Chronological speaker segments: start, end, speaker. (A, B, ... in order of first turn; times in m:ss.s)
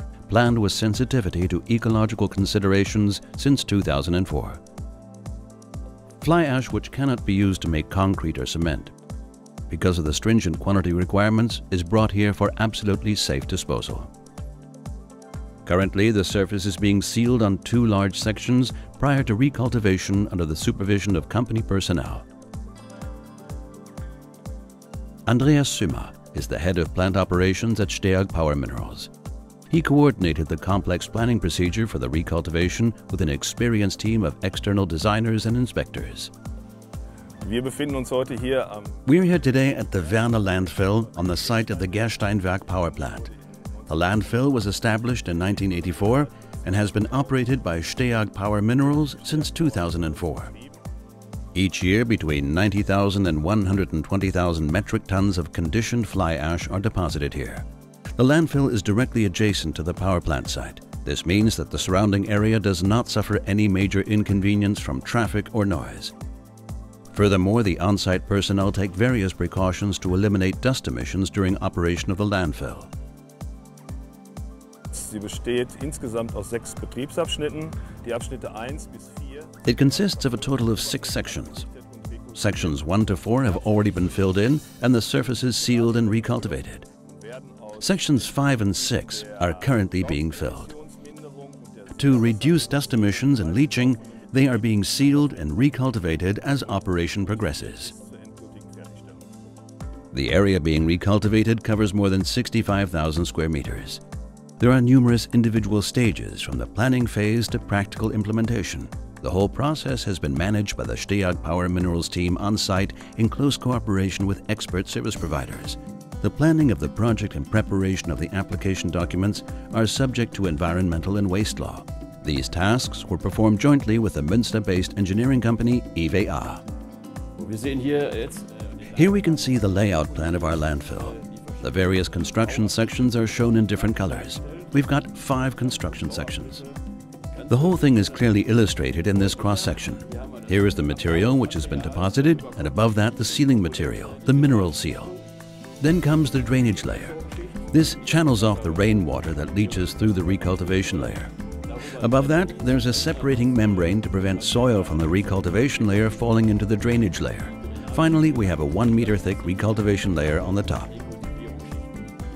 0:00.3-0:04.6 A
0:06.2-0:08.9 A
0:09.7-0:14.1 A
0:15.6-0:22.2 A
0:25.2-0:29.1 A
0:29.7-0:36.3 A
0:37.4-0:39.0 B
0:39.0-0:43.3 A
0:39.6-0:43.9 B
0:43.9-0:50.5 A
0:45.4-0:47.6 B
0:48.9-0:50.7 B
0:51.5-1:06.1 A
1:07.1-1:12.9 A
1:14.9-1:22.8 B
1:19.6-1:21.6 A
1:22.4-1:26.9 A
1:23.4-1:24.4 B
1:25.6-1:26.5 B
1:27.2-1:35.6 B
1:27.8-1:30.7 A
1:31.9-1:37.9 A
1:36.6-1:39.2 B
1:40.1-1:44.0 A
1:44.6-2:06.6 A
2:07.4-2:12.8 C
2:08.9-2:16.6 A
2:13.8-2:14.7 C
2:15.7-2:16.6 C
2:17.3-2:18.4 C
2:17.5-2:25.1 A
2:19.1-2:25.2 C
2:25.8-2:27.2 A
2:26.6-2:36.5 C
2:27.7-2:31.3 A
2:31.9-2:40.9 A
2:37.5-2:41.9 C